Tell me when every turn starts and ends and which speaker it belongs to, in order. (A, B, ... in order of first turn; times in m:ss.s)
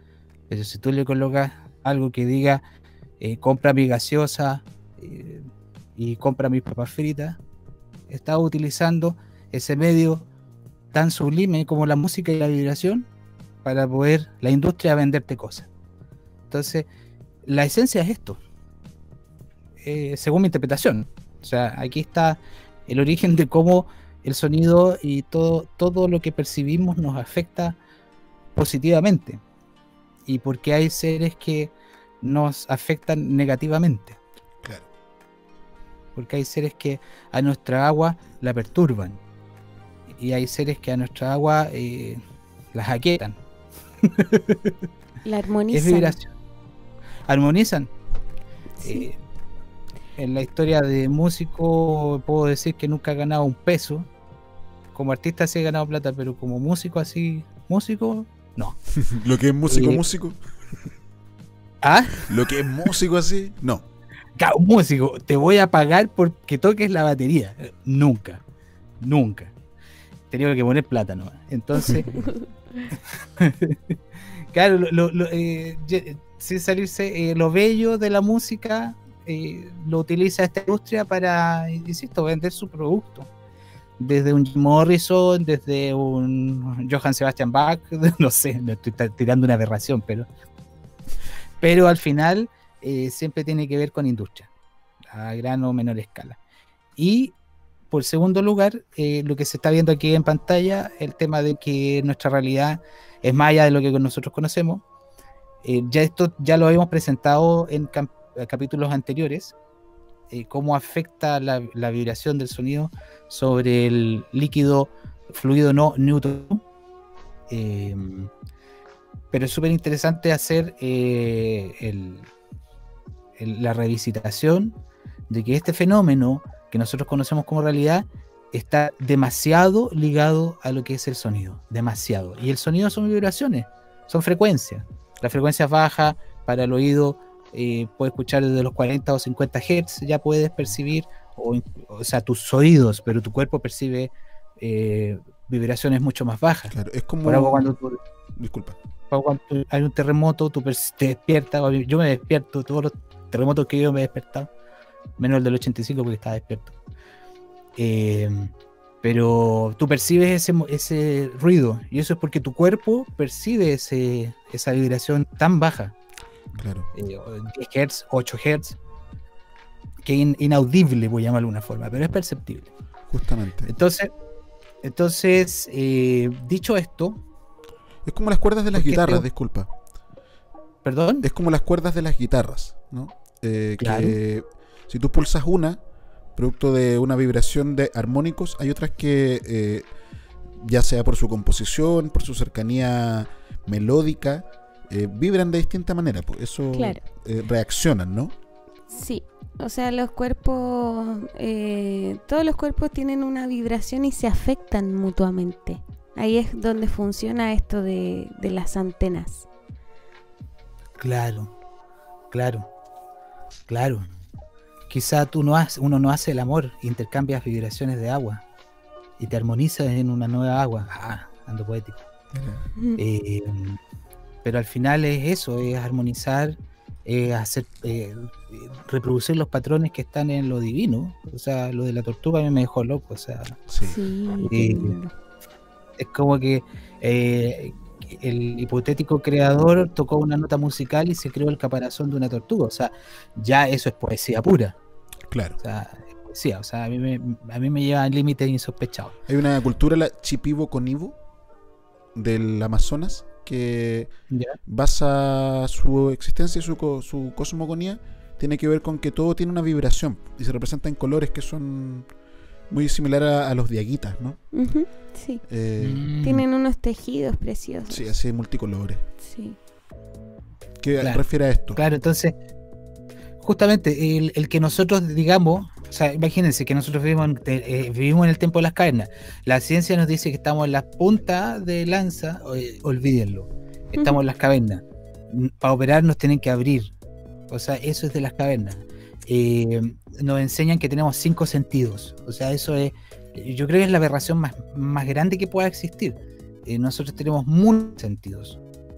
0:00.5-0:02.6 A
0:03.2-0:07.4 A
0:08.1-0:10.3 A
0:10.9-0:13.1 A
0:13.6-0:15.7 A
0:16.5-0:16.9 A
0:17.4-0:18.4 A
0:19.8-0:27.8 A
0:28.6-0:29.4 A
0:30.3-0:34.2 A
0:34.6-0:34.9 B
0:36.2-0:39.2 A
0:40.2-0:42.2 A
0:42.7-0:43.4 A
0:44.1-0:44.8 A
0:45.2-0:46.2 C
0:45.7-0:46.3 A
0:47.3-0:47.9 A
0:48.8-0:49.1 C
0:48.8-0:49.2 A
0:50.2-0:54.1 A
0:54.9-0:58.8 A
0:59.0-1:00.4 B
0:59.7-1:00.0 A
1:01.8-1:02.3 A
1:02.2-1:03.9 B
1:04.4-1:08.4 A
1:09.0-1:09.5 A
1:10.3-1:12.1 A
1:11.8-1:12.8 C
1:13.4-1:13.8 A
1:14.5-1:23.3 A
1:24.0-1:30.3 A
1:31.6-1:34.5 A
1:35.1-1:36.4 A
1:37.0-1:37.3 A
1:37.9-1:44.8 A
1:45.6-1:49.5 A
1:50.3-1:56.6 A
1:57.5-1:58.3 A
1:59.3-2:02.3 A
2:03.4-2:04.8 A
2:05.3-2:26.7 A
2:26.7-2:27.7 B
2:27.2-2:28.0 A
2:28.4-2:28.8 B
2:29.1-2:34.5 A
2:35.2-2:36.8 A
2:37.8-2:38.5 A
2:39.0-2:46.0 A
2:46.6-2:46.9 B
2:46.9-2:48.8 A
2:50.0-2:52.7 A
2:53.1-2:53.7 B
2:53.7-2:54.1 A
2:54.8-2:57.2 A
2:58.0-2:59.7 B
2:58.8-2:59.3 A
3:00.8-3:01.2 A
3:01.2-3:05.8 B
3:03.8-3:04.2 A
3:06.4-3:09.9 B
3:10.6-3:18.3 B
3:16.7-3:17.0 C
3:18.9-3:29.5 C
3:31.0-3:31.5 A
3:32.3-3:32.7 A
3:33.7-3:34.1 A
3:34.9-3:38.4 A
3:39.2-3:42.1 A
3:42.3-3:42.6 B
3:43.0-3:43.8 A
3:44.4-3:53.6 A
3:53.7-3:54.0 B
3:53.8-3:55.1 C
3:54.4-3:55.0 A
3:56.0-4:04.8 A
4:05.3-4:05.6 B
4:05.6-4:09.2 A
4:09.3-4:11.2 B
4:12.2-4:14.1 B
4:14.3-4:14.6 A
4:14.7-4:22.1 B
4:22.7-4:24.4 B
4:24.5-4:25.4 C
4:25.5-4:26.1 B
4:25.8-4:26.4 A
4:26.2-4:28.1 C
4:27.9-4:29.0 B
4:29.2-4:29.6 C
4:30.8-4:31.8 B
4:31.8-4:32.4 A
4:33.4-4:46.9 A
4:47.5-4:58.6 A